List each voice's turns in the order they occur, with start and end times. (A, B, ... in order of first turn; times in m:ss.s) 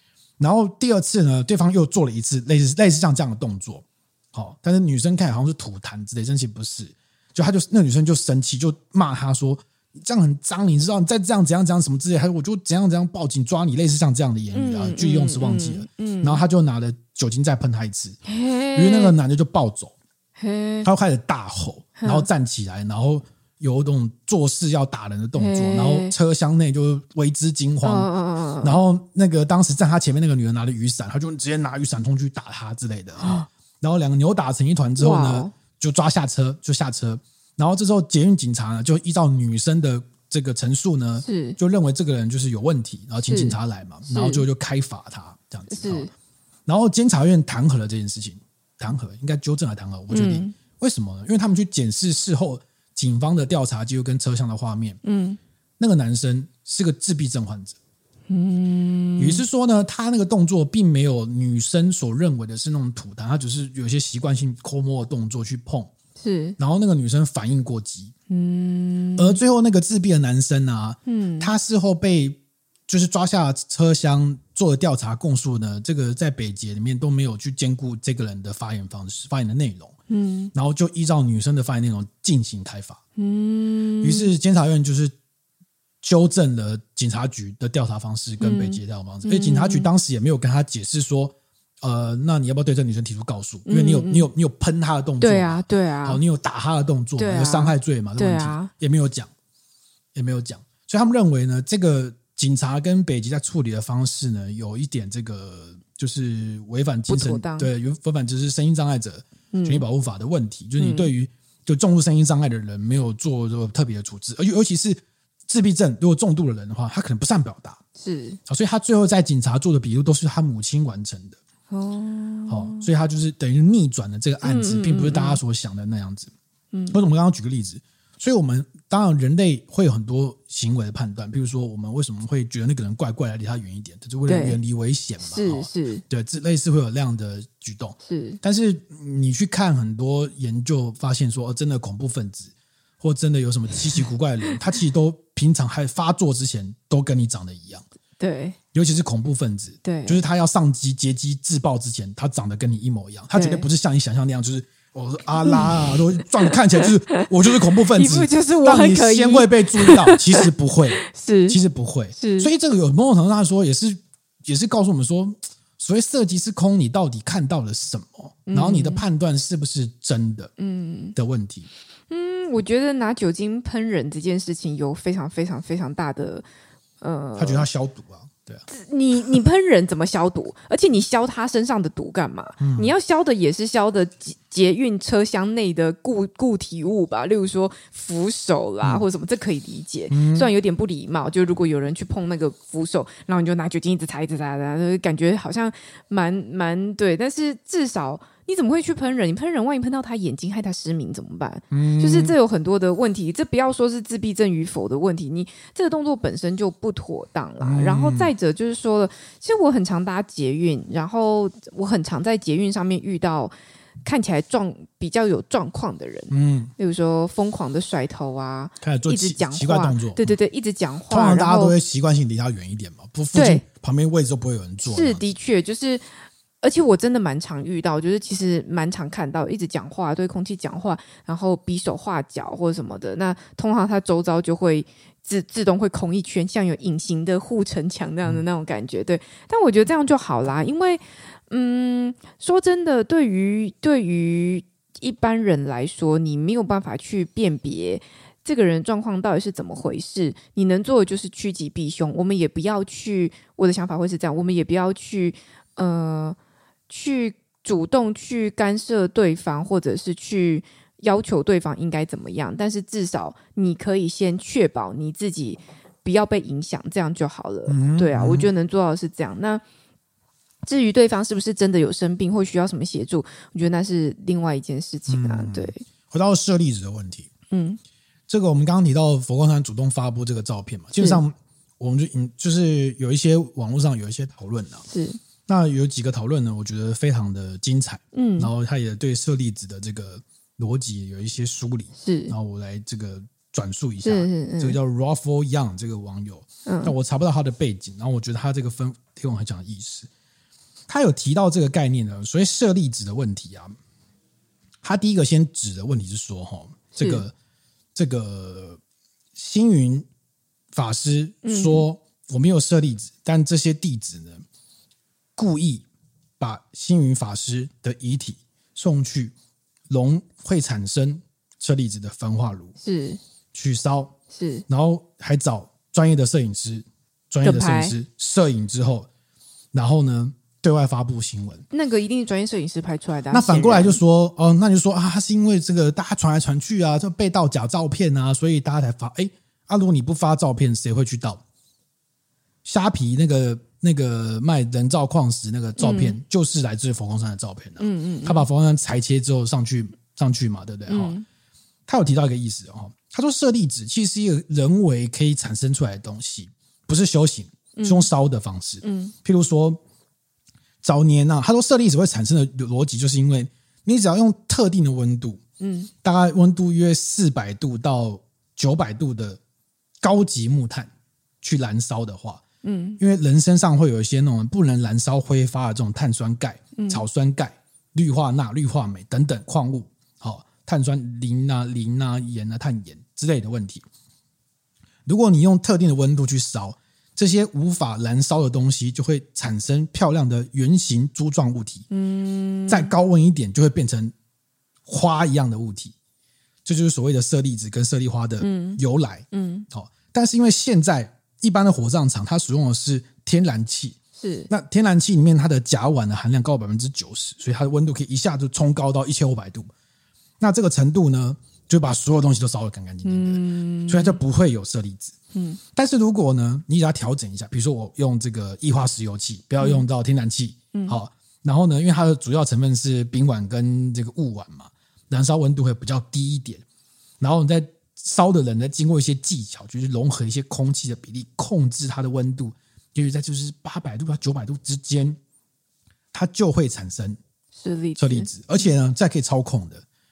0:00.4-0:18.2 A
0:14.5-0:16.4 B
0:18.3-0:19.1 B
0:18.7-0:19.9 A
0:20.4-0:20.9 B
0:20.8-0:28.1 A
0:22.0-0:22.3 B
0:25.4-0:26.1 B
0:27.8-0:28.8 B
0:28.6-0:46.1 A
0:33.2-0:33.5 B
0:35.0-0:35.5 B
0:41.2-0:41.6 B
0:43.3-0:44.4 B
0:45.7-0:46.1 B
0:46.6-0:55.0 A
0:50.1-0:50.6 B
0:55.0-0:55.4 B
0:55.8-0:57.8 A
0:58.3-0:59.4 B
0:59.2-1:05.9 A
1:06.2-1:06.6 B
1:06.6-1:08.1 A
1:08.3-1:09.4 B
1:09.2-1:19.9 A
1:11.1-1:11.5 B
1:20.1-1:20.5 B
1:20.5-1:23.0 A
1:23.2-1:24.3 B
1:24.0-1:25.1 A
1:26.0-1:39.3 A
1:28.4-1:29.9 B
1:33.7-1:34.3 B
1:35.2-1:36.2 B
1:37.2-1:38.7 B
1:40.1-1:57.8 A
1:47.1-1:47.7 B
1:49.5-1:49.8 B
1:50.8-1:51.1 B
1:58.0-1:58.4 B
1:58.5-2:01.4 A
2:01.7-2:02.9 B
2:02.5-2:06.3 A
2:04.4-2:05.4 B
2:06.7-2:07.0 B
2:06.9-2:27.8 A
2:14.2-2:14.6 B
2:15.2-2:16.0 B
2:18.0-2:18.4 B
2:28.2-2:28.6 B
2:28.7-2:50.5 A
2:29.8-2:30.2 B
2:33.3-2:33.6 B
2:35.4-2:35.8 B
2:36.4-2:40.5 B
2:41.0-2:41.6 B
2:42.1-2:42.5 B
2:48.5-2:49.0 B
2:50.6-2:51.1 B
2:51.1-2:51.7 A
2:52.1-2:56.4 B
2:57.0-2:57.6 B
2:57.4-2:58.6 A
2:58.7-3:33.5 B
3:02.6-3:02.9 A
3:10.1-3:10.5 A
3:21.7-3:22.4 A
3:27.6-3:28.3 A
3:34.0-3:41.8 B
3:36.3-3:36.7 A
3:38.8-3:40.3 A
3:41.1-3:45.2 A
3:43.3-3:43.6 B
3:44.8-3:46.1 B
3:46.6-4:16.4 B
4:16.9-4:29.6 B
4:27.7-4:28.5 A
4:30.6-4:35.8 B
4:35.1-4:37.3 A
4:37.5-4:37.8 B
4:38.3-4:44.8 A
4:44.9-4:45.2 B
4:45.5-5:00.1 A
4:48.1-4:48.5 B
4:52.0-4:52.4 B
4:54.0-4:54.8 B
4:56.6-4:56.9 B
5:00.9-5:03.8 A
5:04.8-5:07.3 A
5:06.9-5:07.2 B
5:07.9-5:08.8 A
5:09.4-5:10.1 A
5:10.7-5:14.4 A
5:11.4-5:11.8 B
5:15.4-5:15.8 A
5:16.4-5:19.3 A
5:19.9-5:22.7 A
5:22.8-5:23.2 B
5:23.5-5:24.1 A
5:24.3-5:24.6 B
5:24.7-5:29.1 A
5:27.4-5:27.9 B
5:29.7-5:31.6 A
5:31.7-5:34.0 B
5:33.3-5:41.4 A
5:42.6-5:51.1 A
5:45.8-5:46.2 B
5:47.8-5:48.5 B
5:50.9-5:51.2 B
5:51.9-5:59.8 A
5:57.8-5:58.1 B
5:58.8-5:59.1 B
6:00.8-6:05.4 A
6:05.6-6:05.9 B
6:06.0-6:09.4 A
6:10.0-6:10.9 A
6:11.4-6:12.4 A
6:12.6-6:13.0 B
6:13.0-6:23.8 A
6:16.8-6:17.0 B
6:25.1-6:31.8 A
6:31.9-6:32.9 B
6:32.7-6:34.1 A
6:34.8-6:35.9 A
6:36.6-6:44.0 A
6:38.4-6:38.8 B
6:39.3-6:39.7 B
6:44.2-6:44.5 B
6:44.5-6:49.7 A
6:50.4-6:55.1 A
6:53.0-6:54.2 B
6:55.3-6:55.6 B
6:55.7-7:06.6 A
7:00.7-7:01.0 B
7:07.2-7:15.2 A
7:16.1-7:17.2 A
7:17.6-7:18.7 B
7:18.0-7:19.8 A